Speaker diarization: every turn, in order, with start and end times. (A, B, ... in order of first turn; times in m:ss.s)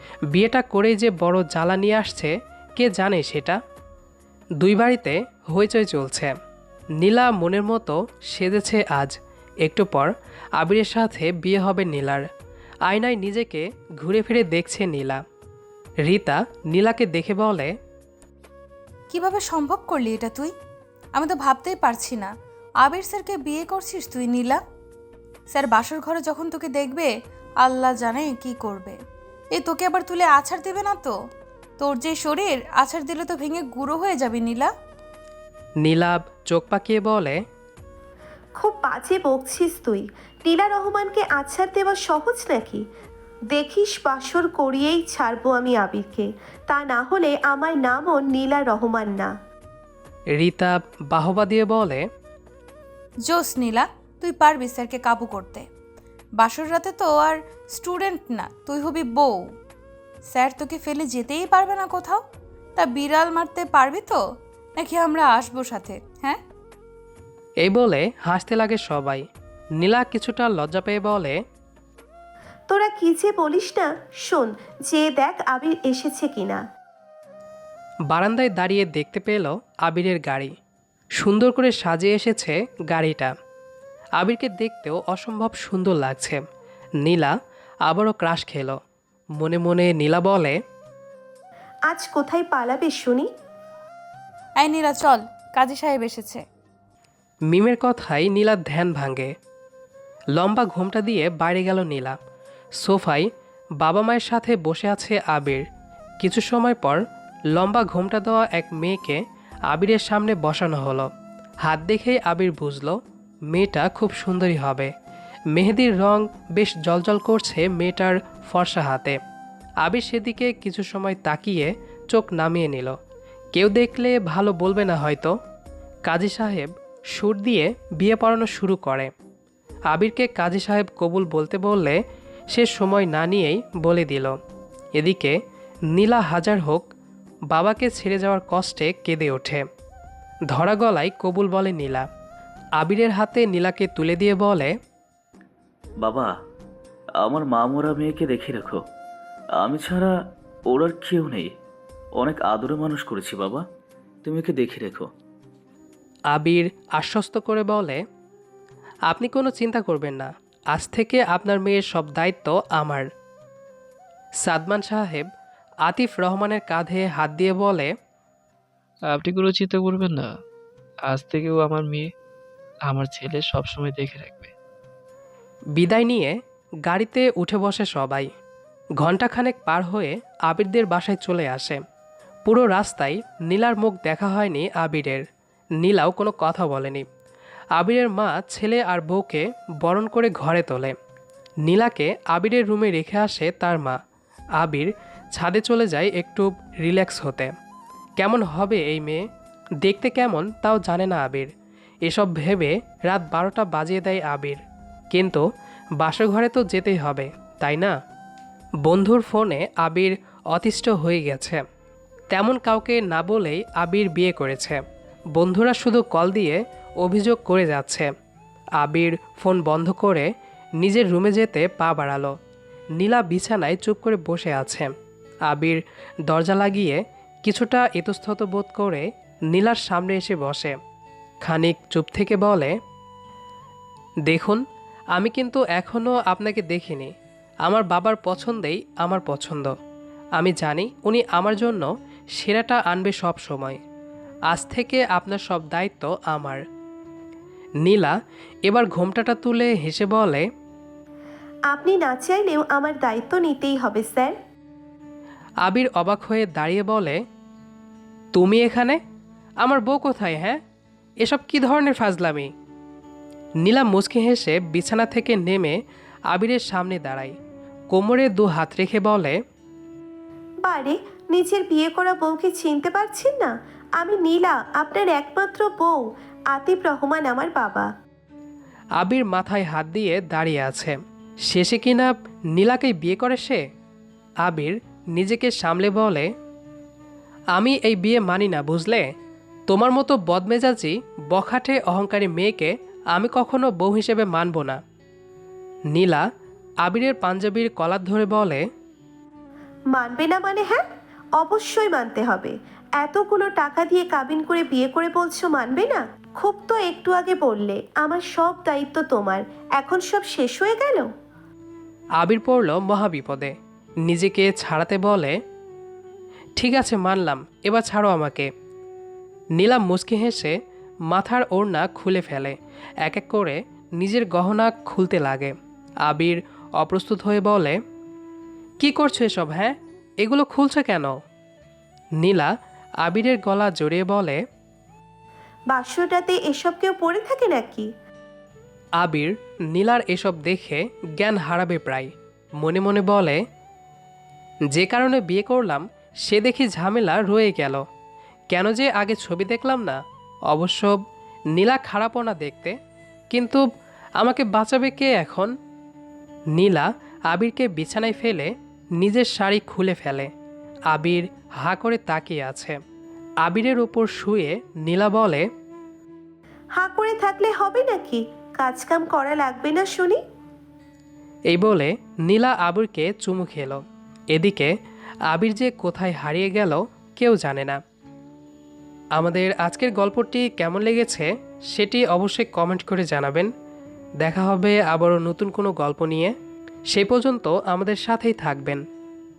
0:00.3-0:03.6 A
0:04.6-0:06.3 A
0:07.0-0:12.2 A
0:12.8-0:15.2 A
0:16.0-0:17.7 A
0:19.1-0:20.5 B
0:21.1-0:22.3 B
0:22.8-0:24.6 B
0:25.5-0:27.1 B
0:27.6-0:29.0 B
0:29.5-0:31.1 B
0:31.8-0:34.7 B
0:35.8-0:37.4 A
0:38.6-0:42.8 C
0:43.5-0:49.3 C
0:50.3-0:52.1 A
0:53.2-0:55.7 B
0:56.4-0:59.4 B
1:00.3-1:02.2 B
1:02.8-1:04.2 B
1:04.8-1:06.4 B
1:07.6-1:09.2 A
1:09.8-1:11.4 A
1:12.7-1:16.6 C
1:18.1-1:20.5 A
1:21.2-1:23.3 A
1:24.2-1:26.4 A
1:27.0-1:27.3 A
1:27.8-1:28.8 A
1:29.4-1:30.6 A
1:31.9-1:33.3 C
1:34.6-1:36.4 B
1:37.5-1:39.3 A
1:40.3-1:42.2 A
1:42.8-1:43.3 A
1:43.8-1:45.6 A
1:46.2-1:47.0 A
1:47.5-1:51.1 A
1:51.6-1:53.0 A
1:53.5-1:54.9 A
1:55.5-1:59.2 A
1:59.8-2:03.0 A
2:03.5-2:05.3 A
2:06.0-2:09.1 A
2:09.9-2:12.0 A
2:12.5-2:14.4 A
2:14.9-2:15.3 A
2:15.9-2:16.9 A
2:17.5-2:19.6 A
2:20.5-2:22.1 A
2:22.8-2:24.7 A
2:26.0-2:26.3 D
2:27.2-2:28.8 D
2:29.6-2:30.1 D
2:30.7-2:31.5 D
2:32.2-2:33.6 D
2:34.2-2:35.1 D
2:36.3-2:38.0 A
2:39.1-2:43.1 A
2:44.4-2:45.3 A
2:45.8-2:47.9 A
2:49.1-2:50.3 E
2:51.0-2:52.1 E
2:52.8-2:54.5 E
2:55.8-2:58.3 A
2:59.0-3:01.8 A
3:02.4-3:05.2 A
3:05.8-3:07.0 A
3:07.8-3:11.0 A
3:11.6-3:14.0 A
3:14.6-3:17.5 A
3:18.2-3:19.3 A
3:19.8-3:21.5 A
3:22.0-3:24.6 A
3:25.1-3:25.4 A
3:26.0-3:27.9 A
3:28.8-3:31.6 A
3:32.3-3:34.8 A
3:35.3-3:38.1 A
3:38.8-3:40.3 A
3:40.8-3:42.3 A
3:43.0-3:44.9 A
3:45.5-3:50.8 A
3:51.4-3:52.7 A
3:54.2-3:54.6 A
3:55.1-3:57.1 A
3:57.6-3:59.7 A
4:00.4-4:03.8 A
4:04.5-4:06.6 A
4:07.8-4:08.1 A
4:08.6-4:10.4 A
4:11.7-4:14.3 C
4:15.6-4:17.2 A
4:18.3-4:19.0 A
4:19.6-4:20.6 A
4:21.2-4:22.5 A
4:23.6-4:27.4 A
4:27.9-4:29.4 A
4:30.6-4:37.9 C
4:39.0-4:43.6 A
4:44.4-4:46.3 A
4:47.5-4:49.1 A
4:49.7-4:54.8 A
4:55.9-4:56.2 A
4:56.8-4:58.6 A
4:59.9-5:00.8 C
5:01.4-5:11.1 C
5:12.2-5:13.5 A
5:14.0-5:15.4 A
5:16.6-5:18.5 A
5:19.6-5:20.5 A
5:21.1-5:25.5 A
5:26.0-5:27.8 A
5:28.8-5:31.2 A
5:32.2-5:34.4 A
5:35.7-5:37.9 C
5:39.0-5:43.4 A
5:44.7-5:47.8 A
5:48.5-5:51.0 A
5:51.5-5:52.8 A
5:53.3-5:53.6 A
5:54.2-5:55.5 A
5:56.5-6:00.3 A
6:00.9-6:02.8 A
6:03.4-6:05.4 A
6:06.8-6:10.2 C
6:11.5-6:14.7 A
6:15.3-6:17.8 A
6:19.2-6:23.5 A
6:24.2-6:26.3 A
6:26.9-6:28.8 A